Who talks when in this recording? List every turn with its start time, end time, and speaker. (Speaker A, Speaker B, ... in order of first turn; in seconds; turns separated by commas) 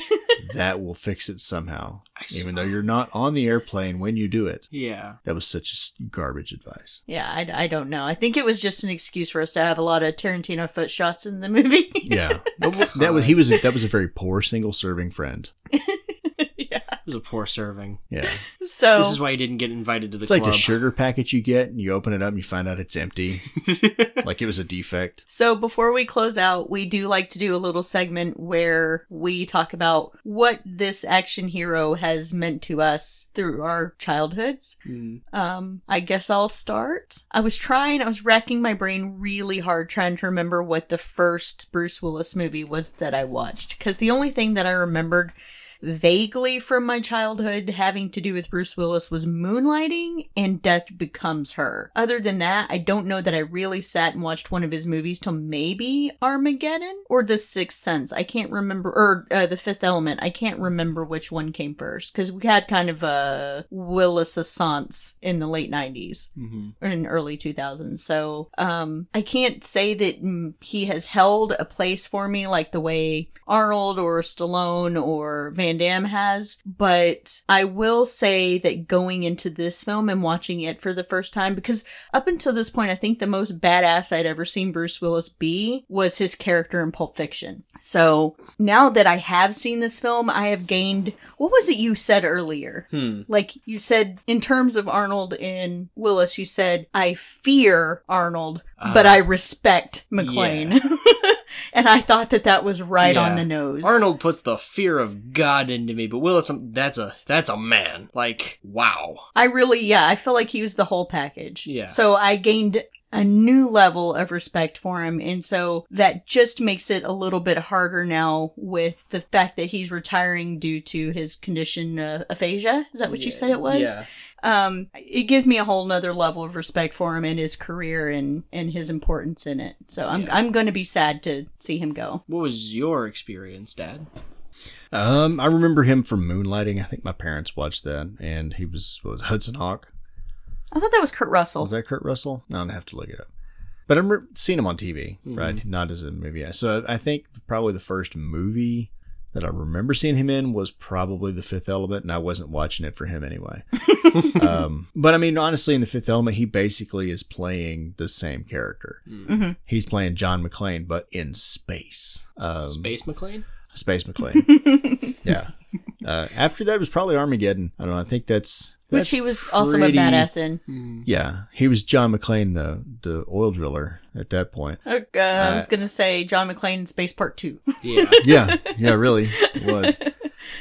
Speaker A: 0.4-4.7, Speaker B: 2.2-2.7, Speaker B: 4.7-5.2, Speaker A: 5.2-7.0, Speaker C: 7.1-12.6, Speaker A: 12.0-15.5, Speaker B: 12.9-13.4, Speaker C: 15.7-17.0, Speaker B: 17.1-18.0, Speaker A: 18.1-18.4, Speaker C: 18.6-19.2, Speaker B: 19.0-20.8, Speaker A: 20.3-23.4, Speaker B: 23.6-24.2, Speaker A: 24.2-25.2, Speaker C: 25.3-34.8, Speaker B: 34.9-35.2, Speaker C: 35.3-66.3, Speaker B: 66.4-66.7, Speaker C: 66.8-104.0, Speaker B: 92.9-93.3, Speaker B: 98.8-99.2, Speaker B: 100.2-100.8, Speaker B: 103.0-109.3, Speaker C: 109.3-132.2, Speaker B: 111.7-112.0, Speaker B: 123.1-124.1, Speaker B: 130.1-130.4, Speaker B: 132.3-134.1, Speaker A: 134.9-139.9, Speaker C: 140.7-141.7, Speaker A: 141.6-143.3, Speaker A: 143.9-159.0, Speaker B: 145.3-145.6, Speaker C: 154.0-154.4, Speaker B: 159.1-159.4, Speaker C: 159.3-159.6, Speaker A: 159.6-162.9, Speaker B: 162.7-163.4, Speaker A: 163.7-164.6, Speaker C: 164.4-165.2, Speaker A: 165.2-170.2, Speaker C: 168.9-170.6, Speaker B: 169.8-171.1, Speaker A: 171.1-174.8, Speaker C: 174.9-180.1, Speaker A: 175.3-175.7, Speaker B: 177.8-178.2, Speaker A: 178.2-180.0